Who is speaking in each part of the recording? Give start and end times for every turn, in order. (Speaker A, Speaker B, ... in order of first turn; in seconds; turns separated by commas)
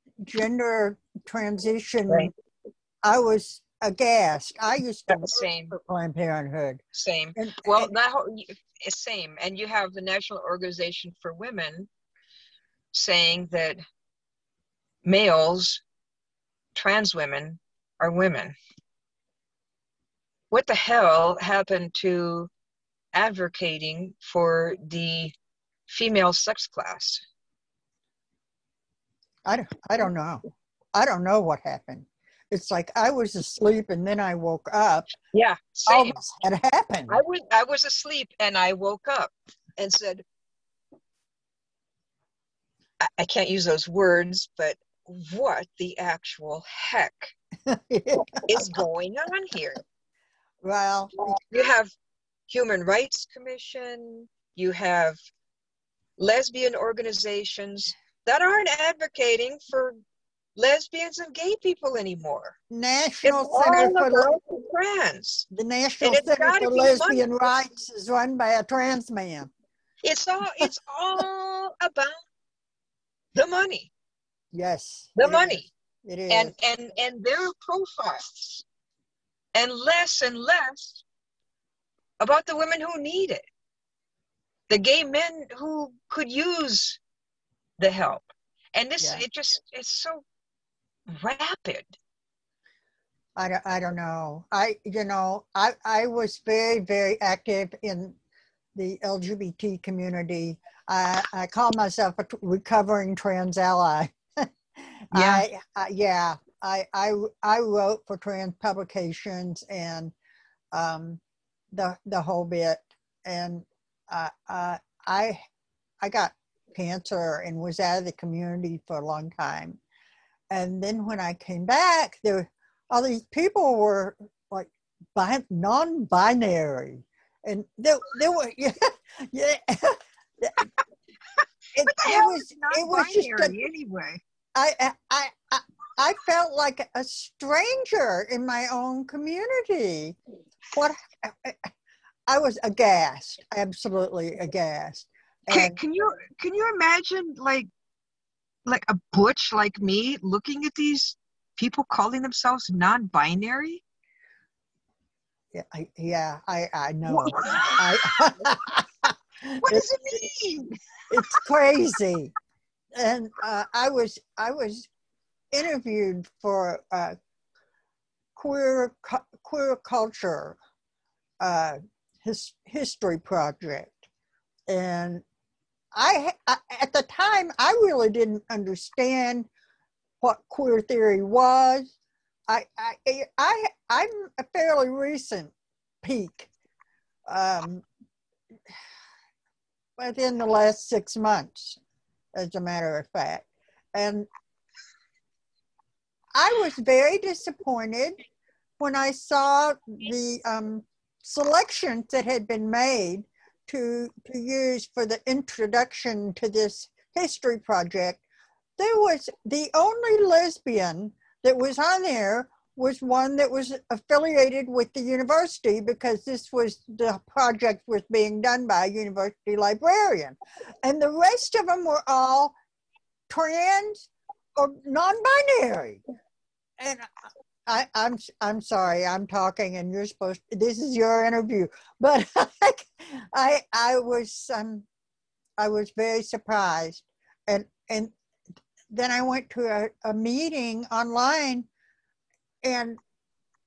Speaker A: 0.2-2.3, Speaker A: 3.0-6.8, Speaker B: 5.1-5.8, Speaker B: 6.9-11.9, Speaker A: 7.4-7.9, Speaker B: 12.9-13.8, Speaker B: 15.1-15.8, Speaker B: 16.8-18.6, Speaker B: 20.5-22.5, Speaker B: 23.1-25.3, Speaker B: 25.9-27.2, Speaker A: 29.5-30.4, Speaker A: 30.9-35.1, Speaker B: 35.3-36.2, Speaker A: 35.9-37.2, Speaker B: 37.1-40.2, Speaker B: 43.0-47.3, Speaker A: 47.7-48.9, Speaker B: 48.5-49.8, Speaker A: 50.6-51.4, Speaker B: 51.2-51.9, Speaker B: 52.5-55.2, Speaker B: 56.2-60.0, Speaker B: 60.6-62.6, Speaker A: 62.7-64.4, Speaker B: 63.2-65.5, Speaker A: 65.5-69.5, Speaker B: 66.0-67.2, Speaker B: 70.0-72.2, Speaker B: 73.3-73.9, Speaker A: 74.5-76.5, Speaker B: 75.2-75.7, Speaker B: 76.3-78.7, Speaker B: 79.5-81.0, Speaker B: 82.2-83.4, Speaker B: 84.7-87.0, Speaker B: 87.8-90.2, Speaker B: 91.1-91.9, Speaker A: 93.4-98.2, Speaker A: 98.8-110.1, Speaker B: 105.1-105.5, Speaker A: 110.7-111.2, Speaker A: 111.7-115.4, Speaker A: 116.0-119.8, Speaker A: 120.5-130.7, Speaker A: 131.8-133.5, Speaker B: 131.8-134.2, Speaker A: 134.6-140.2, Speaker A: 140.7-141.7, Speaker A: 142.3-145.8, Speaker B: 145.5-147.7, Speaker B: 148.7-153.8, Speaker A: 155.5-159.8, Speaker B: 157.1-158.2, Speaker B: 159.6-160.7, Speaker A: 161.1-162.3, Speaker A: 162.9-164.9, Speaker A: 165.5-167.2, Speaker A: 168.4-170.6, Speaker A: 171.4-174.1, Speaker A: 174.7-175.2, Speaker A: 175.9-179.5, Speaker A: 180.2-181.9, Speaker A: 182.5-186.5, Speaker A: 187.3-187.8, Speaker A: 190.0-191.8, Speaker A: 192.3-194.3, Speaker A: 196.3-198.2, Speaker A: 198.8-208.2, Speaker A: 208.8-222.5, Speaker A: 223.3-226.0, Speaker A: 226.8-227.1, Speaker A: 227.7-234.9, Speaker A: 235.6-238.1, Speaker A: 238.9-241.7, Speaker A: 242.6-243.0